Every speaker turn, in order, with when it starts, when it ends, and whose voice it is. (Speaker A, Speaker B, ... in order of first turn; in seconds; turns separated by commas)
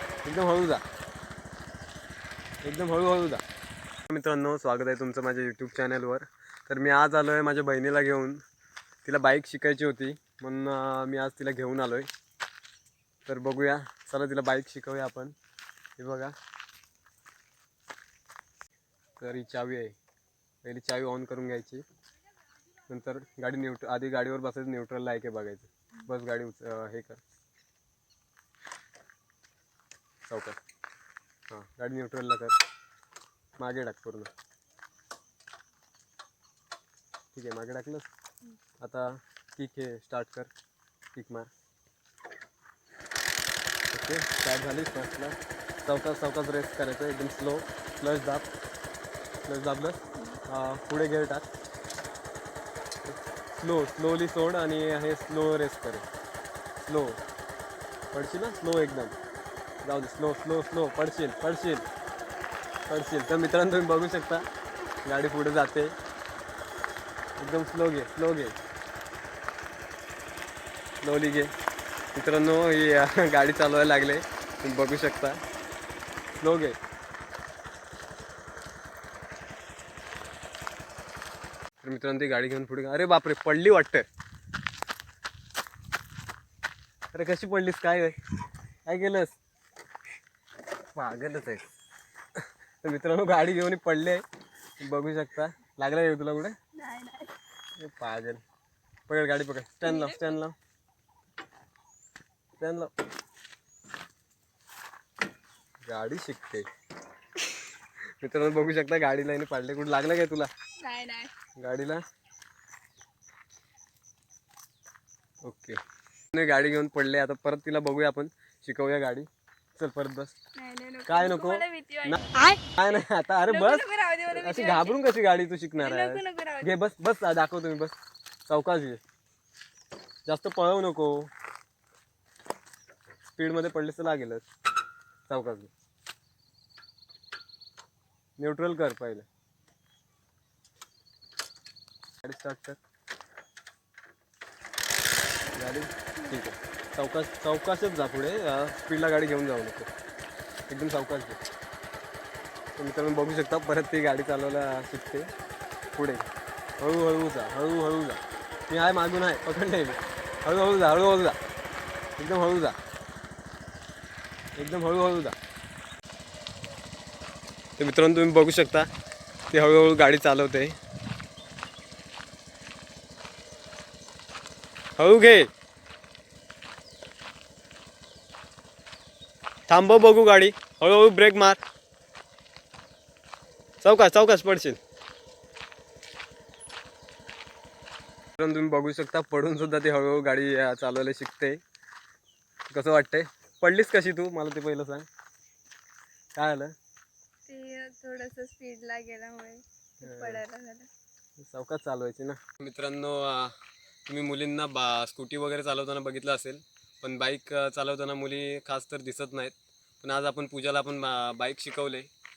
Speaker A: 0.2-0.8, Speaker A: 2.6-3.4, Speaker A: 4.1-8.4, Speaker A: 9.0-12.1, Speaker A: 13.2-15.3, Speaker A: 16.0-16.3, Speaker A: 19.2-19.9, Speaker A: 20.6-21.8, Speaker A: 22.9-27.2, Speaker A: 30.3-30.6, Speaker A: 31.5-32.5, Speaker A: 33.6-34.3, Speaker A: 37.3-38.1, Speaker A: 38.8-40.5, Speaker A: 41.1-41.5, Speaker A: 43.9-48.5, Speaker A: 49.5-51.5, Speaker A: 53.0-56.0, Speaker A: 56.8-57.2, Speaker A: 58.1-59.1, Speaker A: 59.8-61.9, Speaker A: 62.9-64.5, Speaker A: 65.0-65.9, Speaker A: 67.4-68.6, Speaker A: 71.0-71.5, Speaker A: 72.1-75.4, Speaker A: 76.3-76.8, Speaker A: 81.8-84.0, Speaker A: 87.1-88.2, Speaker A: 88.8-89.3, Speaker A: 90.9-91.7, Speaker A: 92.8-94.2, Speaker A: 94.8-96.5, Speaker B: 96.7-97.3, Speaker A: 97.8-98.4, Speaker A: 99.1-100.5, Speaker B: 99.8-100.3, Speaker A: 102.6-102.9, Speaker A: 105.9-106.7, Speaker A: 108.2-110.5, Speaker B: 110.8-111.3, Speaker A: 111.6-112.0, Speaker A: 115.4-115.8, Speaker A: 116.3-120.3, Speaker B: 120.5-125.0, Speaker A: 121.1-127.9, Speaker B: 125.8-126.7, Speaker A: 128.5-129.0, Speaker A: 130.2-131.3, Speaker A: 133.3-134.4, Speaker A: 135.3-135.7, Speaker A: 138.4-139.3, Speaker A: 142.2-142.8, Speaker A: 145.5-149.9, Speaker A: 150.7-151.4, Speaker A: 152.8-155.3, Speaker A: 155.9-156.3, Speaker A: 156.8-161.4, Speaker A: 162.2-162.8, Speaker A: 164.6-165.3, Speaker A: 167.8-168.9, Speaker A: 169.5-170.8, Speaker A: 175.0-175.5, Speaker A: 179.7-181.6, Speaker A: 183.8-184.8, Speaker A: 188.4-191.6, Speaker A: 192.7-195.1, Speaker A: 196.3-196.7, Speaker B: 197.5-200.9, Speaker A: 200.0-200.4, Speaker A: 201.4-203.5, Speaker A: 204.1-212.1